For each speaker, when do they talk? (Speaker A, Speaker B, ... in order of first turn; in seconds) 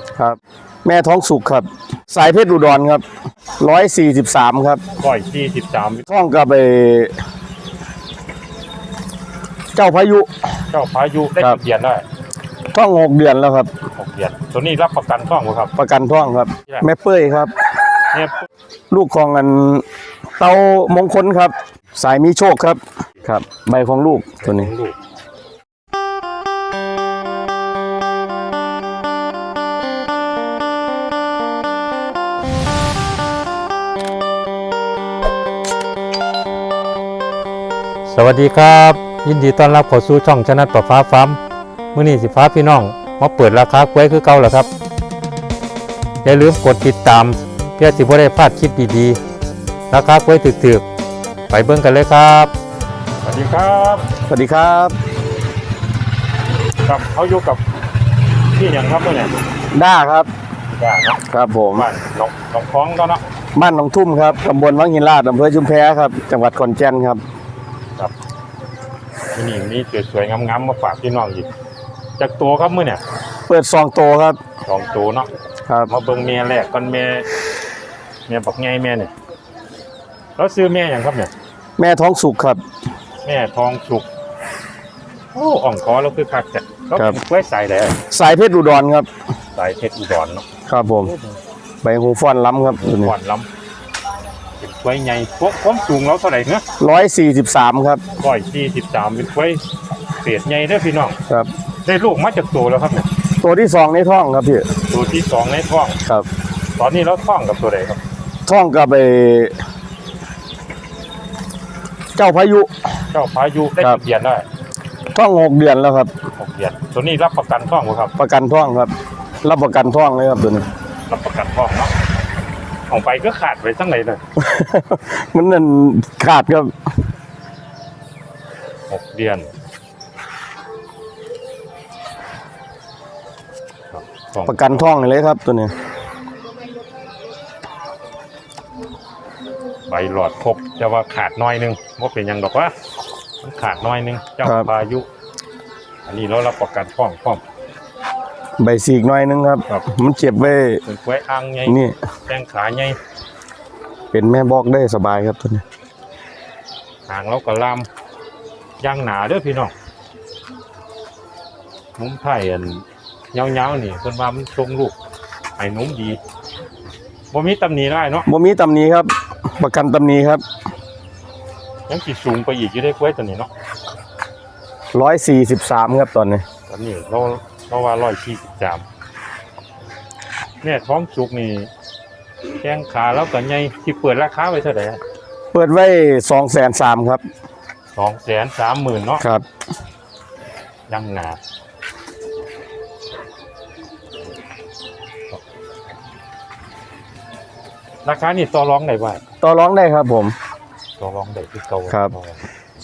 Speaker A: 0.2-3.0, 3.6-4.8, 6.1-7.1, 9.7-10.3, 12.7-13.7, 15.8-17.5, 18.9-19.8, 20.4-24.7, 54.2-54.9, 59.7-60.3, 61.3-61.9, 63.5-67.2, 73.5-74.4, 81.8-82.6, 88.0-89.1, 90.7-91.1, 91.8-93.1, 96.8-98.0, 103.4-104.7, 108.5-109.5, 112.1-112.7, 115.1-116.1, 118.2-118.9, 119.4-120.6, 124.3-126.7, 134.4-135.7, 144.4-144.7, 148.6-150.8, 151.7-151.9, 154.1-155.6, 168.3-170.4, 174.9-176.4, 185.5-187.2, 189.2-189.4, 199.4-200.3
Speaker B: 5.0-6.0, 10.7-12.0, 13.9-15.7, 18.1-18.5, 24.4-24.9, 38.1-41.4, 41.9-44.7, 46.2-49.2, 49.9-50.8, 51.5-52.5, 53.2-54.1, 56.8-57.6, 58.5-59.3, 60.7-61.2, 61.7-63.2, 69.3-71.5, 72.2-73.0, 74.7-75.3, 75.9-77.2, 78.3-79.1, 80.3-81.3, 83.2-84.0, 85.3-88.0, 89.5-90.5, 91.0-91.3, 92.8-93.5, 94.6-96.6, 98.2-99.6, 100.2-101.2, 101.8-103.1, 104.9-106.0, 106.8-108.0, 113.1-114.4, 116.4-118.1, 121.1-121.9, 122.9-124.2, 128.9-129.5, 133.9-134.9, 139.9-142.7, 143.4-145.1, 146.1-147.4, 150.8-153.0, 157.1-157.9, 158.8-159.7, 162.0-164.9, 165.6-166.2, 167.3-168.3, 171.9-173.5, 176.7-178.8, 180.6-181.7, 182.6-185.0, 187.9-189.2, 190.9-191.4, 198.0-199.2, 201.0-202.4